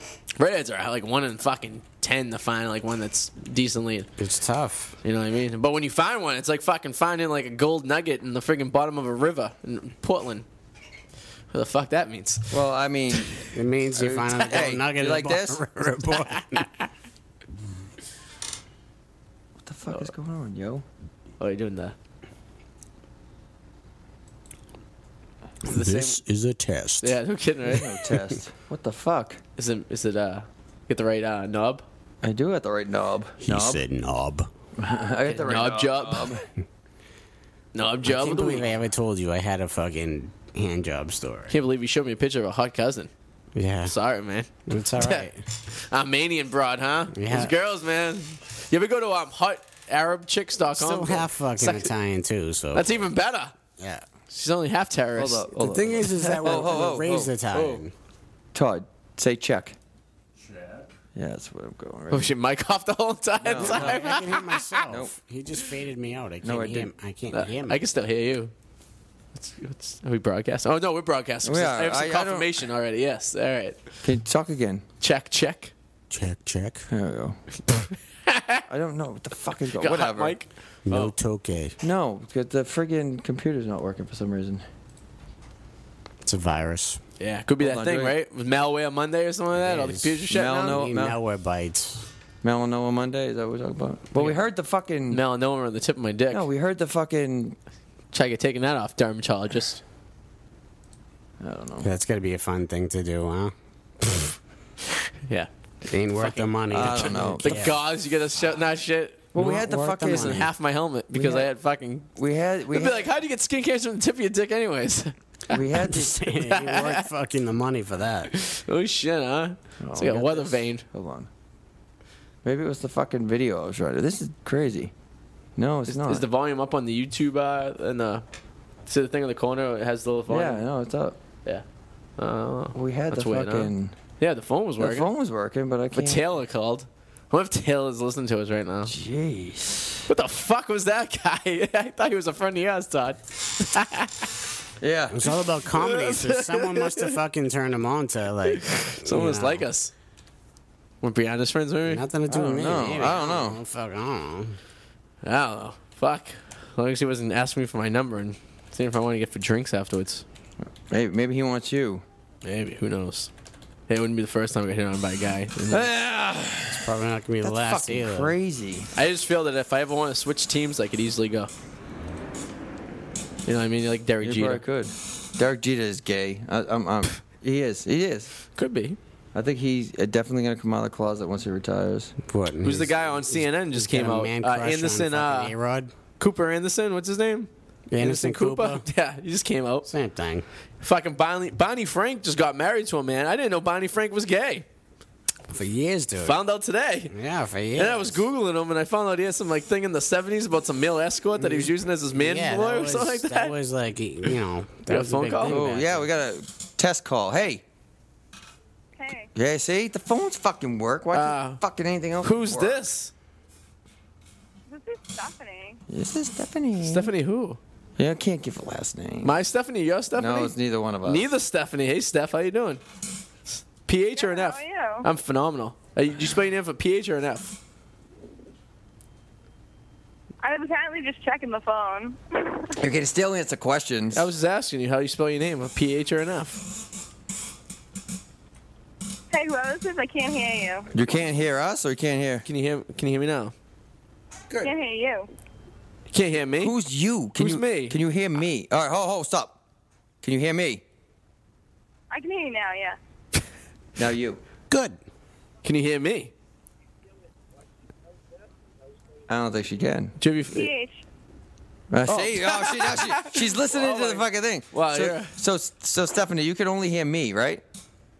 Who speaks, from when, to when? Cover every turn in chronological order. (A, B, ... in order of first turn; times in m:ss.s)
0:00.4-0:04.1 A
0:04.2-0:05.0 B
0:05.0-0:10.4 A
0:11.5-0:12.6 A
0:12.5-0:13.4 C
0:13.5-0:16.7 B
0:14.0-0:14.3 A
0:14.2-0:15.6 C
0:19.6-0:20.8 C
0:21.4-0:22.0 A
0:25.6-0:27.2 B
0:25.7-0:26.1 C
0:27.0-0:27.9 A
0:27.7-0:29.4 C
0:29.6-0:31.8 A
0:32.2-0:33.8 C
0:33.4-0:34.5 B
0:34.8-0:36.4 C
0:35.2-0:36.4 A
0:37.7-0:38.7 A
0:38.0-0:41.5 B
0:41.5-0:43.1 A
0:43.6-0:43.9 B
0:43.8-0:51.9 A
0:44.7-0:45.4 B
0:47.1-0:47.5 B
0:50.7-0:53.0 B
0:52.7-0:53.5 A
0:53.8-0:54.0 B
0:54.3-0:56.9 A
0:55.2-0:57.3 C
0:55.6-0:57.9 B
0:57.5-0:57.8 A
0:58.5-0:59.8 C
1:01.2-1:02.3 C
1:02.1-1:04.9 A
1:03.4-1:04.0 C
1:03.6-1:07.8 B
1:04.9-1:05.1 C
1:06.4-1:06.9 C
1:07.3-1:08.5 A
1:09.4-1:13.8 A
1:11.4-1:12.6 C
1:14.0-1:14.8 C
1:15.0-1:15.7 A
1:16.1-1:16.9 B
1:16.9-1:17.4 C
1:18.3-1:18.6 A
1:18.7-1:20.4 C
1:19.8-1:21.1 A
1:20.9-1:21.8 B
1:21.8-1:24.6 C
1:26.2-1:27.0 B
1:27.2-1:30.8 A
1:27.6-1:28.2 C
1:29.6-1:32.1 B
1:30.3-1:31.2 C
1:32.4-1:35.2 C
1:35.1-1:36.5 A
1:36.3-1:37.6 C
1:38.1-1:39.8 A
1:41.4-1:41.9 C
1:41.8-1:43.5 B
1:45.3-1:52.1 A
1:45.9-1:47.8 B
1:46.7-1:47.8 C
1:49.3-1:50.5 C
1:49.4-1:50.5 B
1:51.1-1:51.5 C
1:52.2-1:53.1 C
1:52.7-1:55.1 A
1:55.5-1:56.3 C
1:55.7-1:58.3 B
1:56.5-1:57.0 A
1:58.3-2:00.8 A
1:59.8-2:01.3 C
2:02.4-2:04.9 C
2:05.6-2:06.3 C
2:05.9-2:08.2 A
2:08.9-2:10.6 A
2:10.3-2:11.2 C
2:12.2-2:15.1 A
2:12.7-2:13.9 C
2:14.8-2:16.2 C
2:15.9-2:18.9 A
2:18.9-2:20.0 C
2:20.1-2:24.3 A
2:24.8-2:25.2 C
2:25.1-2:29.7 B
2:25.7-2:27.1 A
2:28.5-2:29.9 A
2:31.0-2:32.1 A
2:31.9-2:34.6 B
2:32.3-2:33.6 C
2:35.2-2:40.2 A
2:40.9-2:42.0 C
2:42.4-2:43.3 A
2:43.9-2:45.9 A
2:45.7-2:46.9 C
2:46.7-2:48.3 B
2:47.4-2:48.9 C
2:49.0-2:51.5 A
2:53.5-2:54.6 A
2:54.2-2:58.3 C
2:58.6-2:59.0 A
2:59.3-3:02.1 C
3:02.3-3:05.9 B
3:02.6-3:05.5 A
3:06.2-3:09.9 A
3:07.9-3:08.8 B
3:09.8-3:10.4 B
3:10.8-3:14.7 A
3:15.5-3:16.4 B
3:16.2-3:17.1 A
3:17.1-3:18.2 B
3:17.8-3:23.5 A
3:21.4-3:26.1 B
3:24.9-3:25.6 A
3:25.5-3:27.6 C
3:29.0-3:29.3 D
3:29.4-3:32.9 C
3:31.1-3:31.6 A
3:32.2-3:33.1 A
3:34.7-3:35.8 D
3:35.9-3:37.1 C
3:36.8-3:37.6 A
3:38.0-3:39.3 C
3:39.2-3:40.5 A
3:40.2-3:41.3 C
3:41.0-3:42.8 A
3:43.8-3:47.6 A
3:44.1-3:45.1 D
3:50.4-3:52.7 D
3:52.8-3:54.3 C
3:54.1-3:56.6 A
3:59.3-4:00.9 D
4:00.9-4:02.4 C
4:02.4-4:03.5 A
4:04.6-4:05.3 D
4:06.1-4:06.7 A
4:06.6-4:09.6 C
4:07.4-4:08.0 A
4:10.2-4:10.8 C
4:12.1-4:13.0 D
4:14.0-4:14.4 C
4:14.7-4:15.0 B
4:15.6-4:16.3 A
4:19.3-4:20.2 C
4:20.2-4:20.7 A
4:20.5-4:21.0 D
4:21.9-4:27.6 C
4:22.1-4:25.3 A